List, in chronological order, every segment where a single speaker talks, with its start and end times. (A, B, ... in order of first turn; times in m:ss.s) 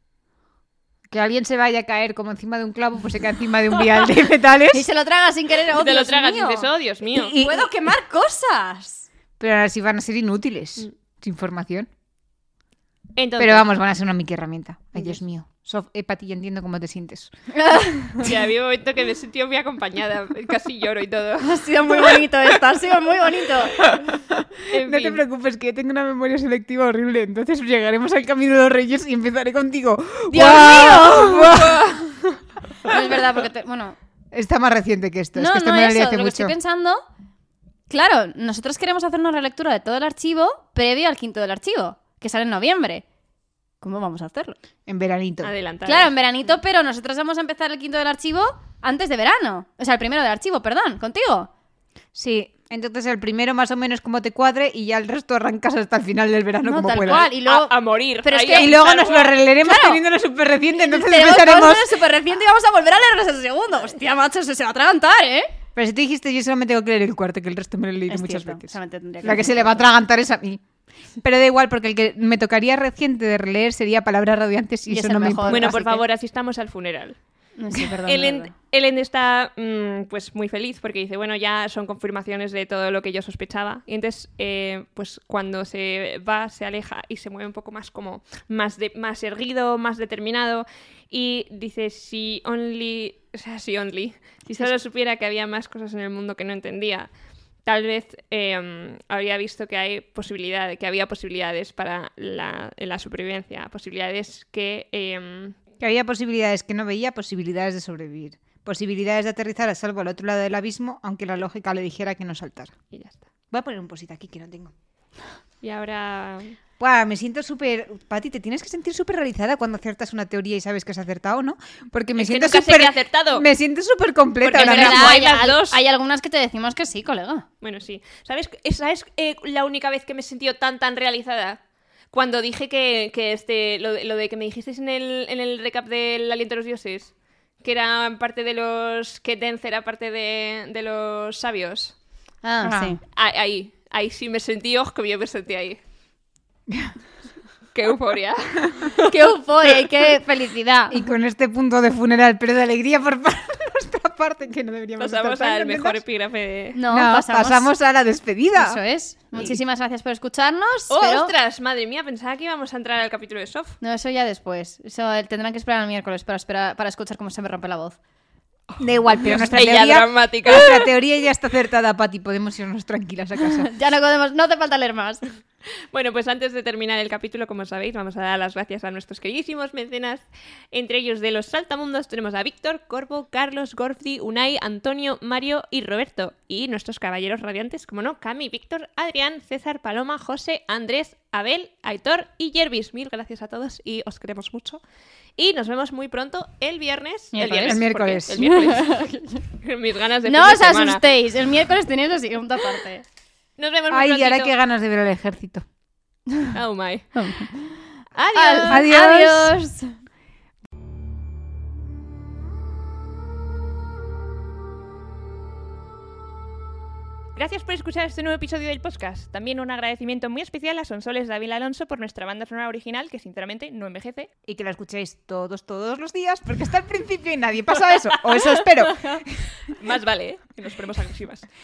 0:01.1-0:04.9 A
0:04.7-0:09.1 B
0:05.7-0:07.4 C
0:07.1-0:07.7 A
0:09.4-0:11.9 A
0:13.2-0:13.7 C
0:13.4-0:17.3 A
0:17.5-0:18.3 B
0:18.2-0:22.2 C
0:21.4-0:23.8 B
0:23.8-0:32.0 A
0:24.7-0:25.2 C
0:30.3-0:31.6 B
0:30.4-0:32.1 C
0:32.8-0:34.0 B
0:34.3-0:36.6 A
0:35.4-0:37.0 B
0:37.9-0:43.0 B
0:43.8-0:44.6 B
0:44.9-0:45.5 A
0:45.4-0:46.1 C
0:45.8-0:51.5 B
0:52.1-0:57.3 A
0:56.6-0:58.8 B
0:57.1-0:59.4 C
0:58.5-1:01.9 A
0:59.6-1:00.0 B
1:00.8-1:05.5 B
1:05.8-1:10.6 A
1:08.1-1:09.8 B
1:11.2-1:15.8 A
1:14.9-1:16.0 B
1:15.5-1:17.2 C
1:17.6-1:18.5 B
1:18.0-1:37.1 C
1:37.7-1:45.6 C
1:45.8-1:52.7 A
1:52.9-1:53.2 C
1:53.5-1:54.7 A
1:55.6-1:56.6 C
1:56.8-2:05.2 A
2:02.2-2:03.5 C
2:04.4-2:05.8 C
2:04.6-2:07.5 B
2:07.6-2:11.6 C
2:12.1-2:22.0 C
2:22.4-2:23.0 B
2:22.6-2:23.0 A
2:23.1-2:25.8 C
2:26.7-2:26.9 A
2:27.7-2:29.2 C
2:29.0-2:31.0 B
2:30.9-2:36.0 A
2:35.0-2:36.8 C
2:36.8-2:37.7 B
2:36.9-2:38.8 A
2:38.6-2:41.3 B
2:40.9-2:43.8 C
2:43.8-2:48.0 B
2:48.8-2:53.7 A
2:49.2-2:50.9 C
2:53.6-2:55.2 B
2:55.8-3:14.8 C
3:15.4-3:21.0 C
3:17.3-3:19.4 B
3:17.6-3:18.5 A
3:20.3-3:23.0 B
3:23.6-3:24.5 C
3:23.9-3:25.6 A
3:26.5-3:27.4 C
3:27.1-3:29.9 B
3:28.2-3:28.9 C
3:28.7-3:29.6 A
3:37.4-3:44.3 C
3:44.4-3:49.4 A
3:49.2-3:51.5 C